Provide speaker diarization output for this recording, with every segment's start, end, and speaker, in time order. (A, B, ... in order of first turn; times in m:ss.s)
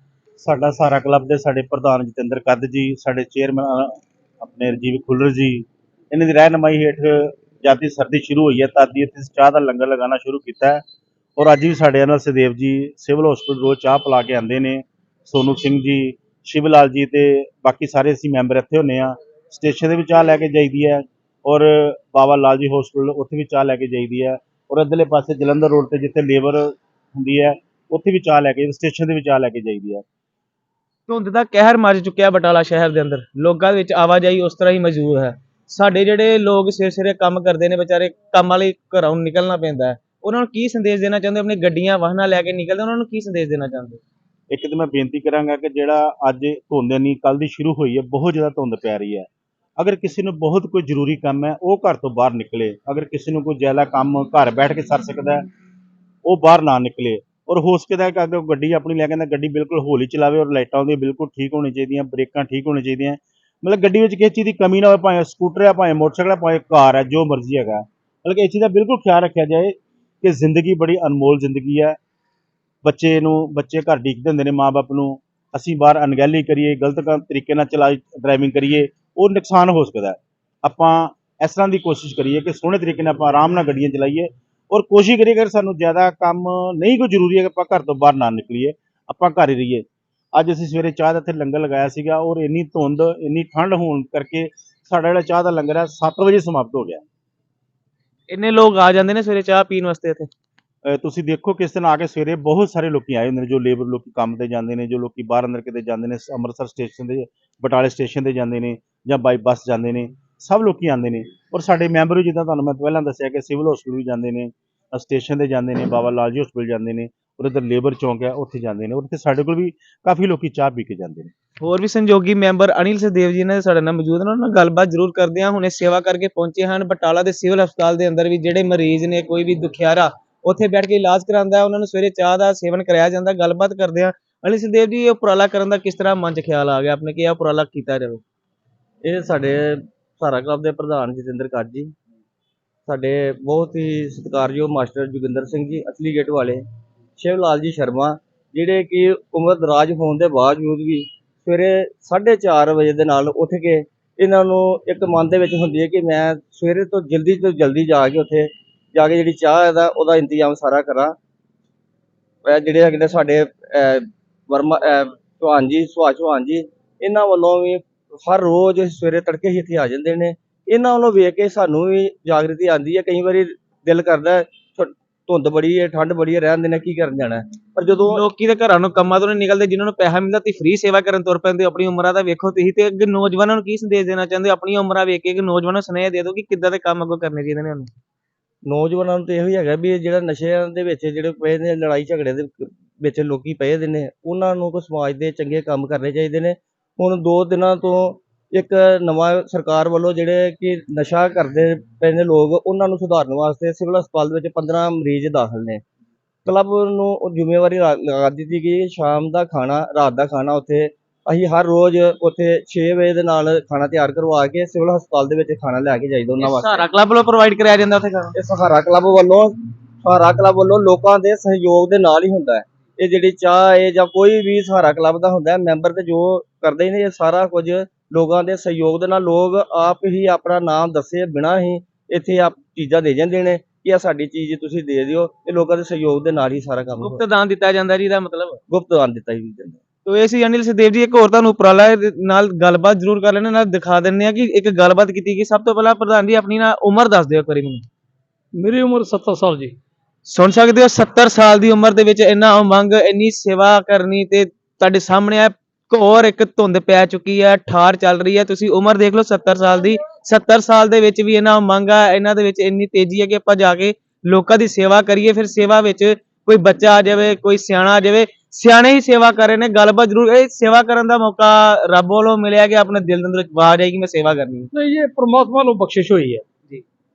0:00.4-0:10.8 A
0:11.4-0:30.0 A
0:31.1-0:44.0 B
0:44.5-0:55.4 A
0:56.2-1:12.0 A
1:12.8-1:37.0 A
1:38.3-1:40.3 B
1:40.8-2:01.3 A
2:01.6-2:18.2 B
2:19.0-2:21.9 C
2:22.9-2:26.6 C
2:27.2-2:41.2 C
2:42.4-2:58.2 C
2:58.1-3:07.9 B
3:08.6-3:25.8 C
3:26.4-3:36.8 C
3:36.4-3:38.3 B
3:38.4-3:57.2 C
3:57.0-3:58.6 B
3:58.7-3:59.8 C
4:00.0-4:07.8 B
4:08.6-4:09.7 D
4:10.2-4:34.7 B
4:34.7-4:36.4 D